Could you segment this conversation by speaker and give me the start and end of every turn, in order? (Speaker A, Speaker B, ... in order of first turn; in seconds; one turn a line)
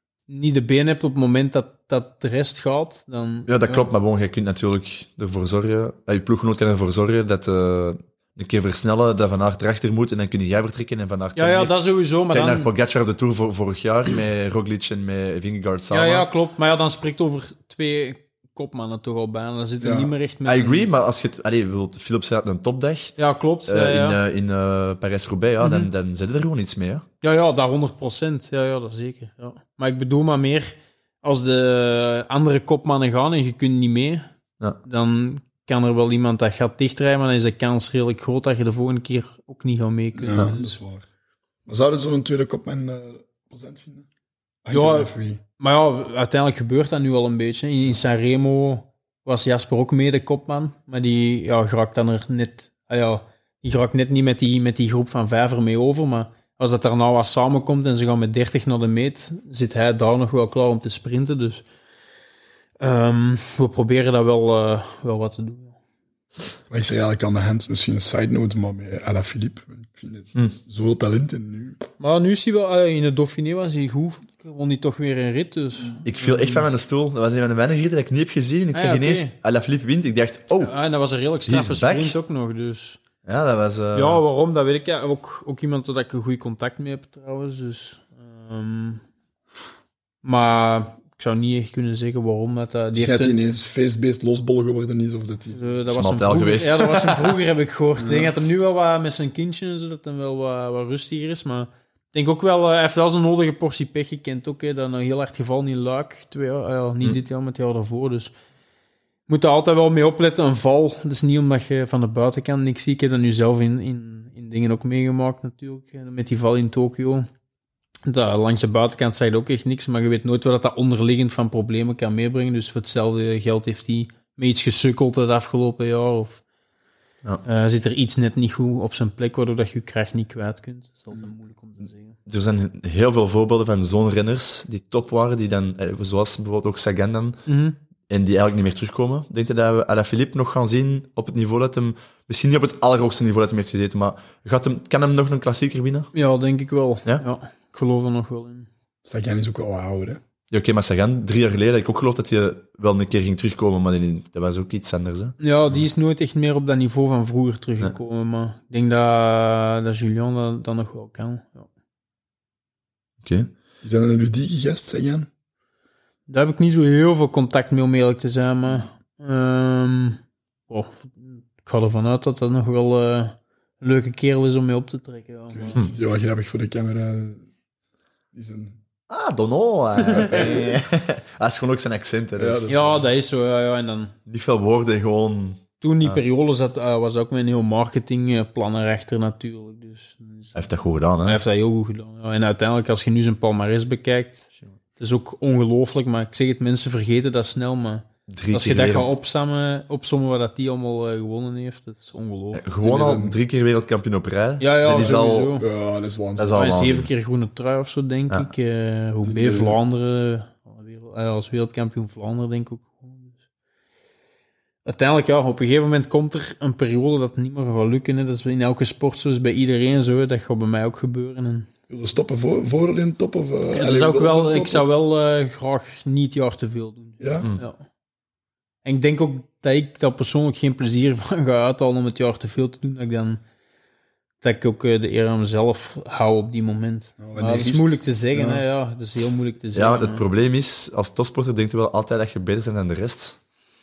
Speaker A: 0.3-3.9
Speaker B: 3.5-16.2
Speaker A: 11.3-12.7
Speaker A: 15.9-20.9
Speaker C: 19.8-20.1
Speaker B: 20.4-27.0
Speaker A: 23.2-24.2
Speaker A: 25.6-25.9
Speaker A: 27.2-34.3
Speaker A: 34.8-40.7
Speaker C: 40.1-41.1
Speaker C: 41.6-44.1
Speaker C: 44.6-45.4
Speaker A: 44.7-61.6
Speaker A: 62.8-65.8
Speaker C: 66.7-71.8
Speaker A: 72.0-76.6
Speaker B: 76.0-80.7
Speaker A: 78.7-79.3
Speaker A: 80.6-83.0
Speaker B: 81.5-82.2
Speaker B: 83.2-84.2
Speaker A: 83.9-89.0
Speaker A: 90.2-93.3
Speaker C: 92.9-95.7
Speaker A: 95.5-108.3
Speaker B: 95.9-97.3
Speaker C: 98.0-98.3
Speaker A: 109.3-117.3
Speaker A: 118.0-126.4
Speaker A: 127.4-132.2
Speaker B: 132.3-137.4
Speaker A: 137.5-137.8
Speaker B: 138.1-146.1
Speaker A: 146.1-148.7
Speaker C: 149.0-150.2
Speaker B: 150.5-155.3
Speaker A: 155.4-161.7
Speaker B: 163.2-163.5
Speaker C: 163.8-165.3
Speaker A: 166.3-175.8
Speaker C: 175.5-177.5
Speaker C: 178.3-178.8
Speaker B: 179.1-182.8
Speaker A: 180.1-180.8
Speaker C: 180.3-180.6
Speaker C: 182.4-183.1
Speaker A: 182.7-184.1
Speaker B: 184.3-186.2
Speaker A: 185.8-190.7
Speaker B: 190.5-191.4
Speaker A: 191.2-202.6
Speaker B: 198.3-199.1
Speaker B: 202.5-205.5
Speaker C: 202.8-203.4
Speaker A: 204.6-205.7
Speaker C: 204.9-206.6
Speaker B: 206.4-207.1
Speaker A: 206.5-213.4
Speaker C: 209.2-209.8
Speaker A: 214.8-221.7
Speaker C: 221.9-224.8
Speaker A: 223.7-227.8
Speaker C: 227.2-227.5
Speaker A: 228.8-233.4
Speaker A: 234.4-240.2
Speaker C: 237.2-238.6
Speaker B: 239.7-243.4